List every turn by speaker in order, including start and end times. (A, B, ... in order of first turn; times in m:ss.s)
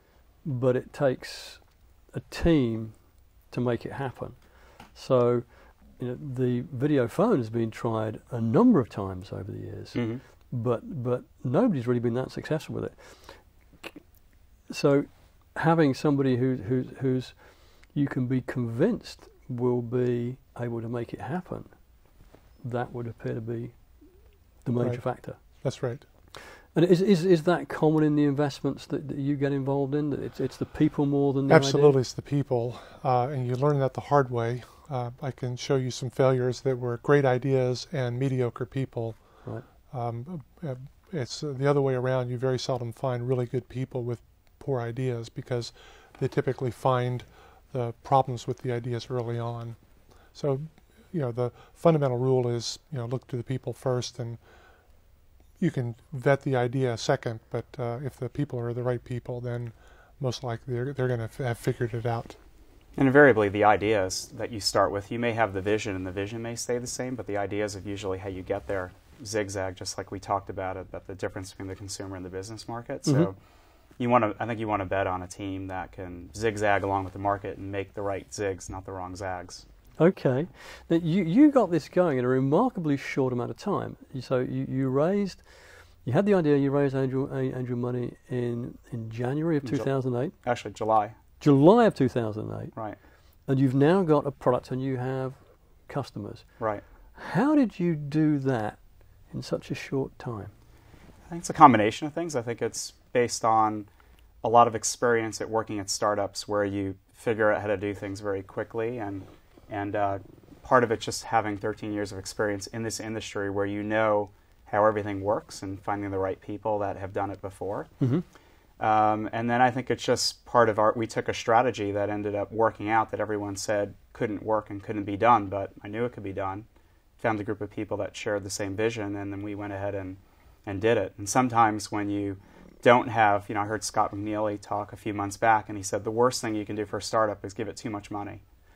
0:00.4-0:03.0 A
0:03.5-0:05.4 A
0:06.0-0:14.0 A
0:09.9-0:10.2 B
0:14.7-0:21.7 A
0:22.6-0:23.9 A
0:24.6-0:25.4 A
0:24.8-0:26.0 C
0:26.7-0:31.9 A
0:31.5-0:39.2 C
0:39.9-0:49.8 C
0:50.3-0:54.4 C
0:55.6-1:02.4 C
1:03.0-1:13.4 B
1:14.0-1:19.6 B
1:20.0-1:30.4 A
1:29.6-1:29.9 B
1:30.4-1:31.2 B
1:31.4-1:32.7 A
1:33.5-1:36.4 A
1:37.2-1:38.8 A
1:39.3-1:40.5 A
1:41.3-1:43.9 B
1:44.4-1:57.9 B
1:58.8-2:06.6 B
2:07.2-2:18.4 B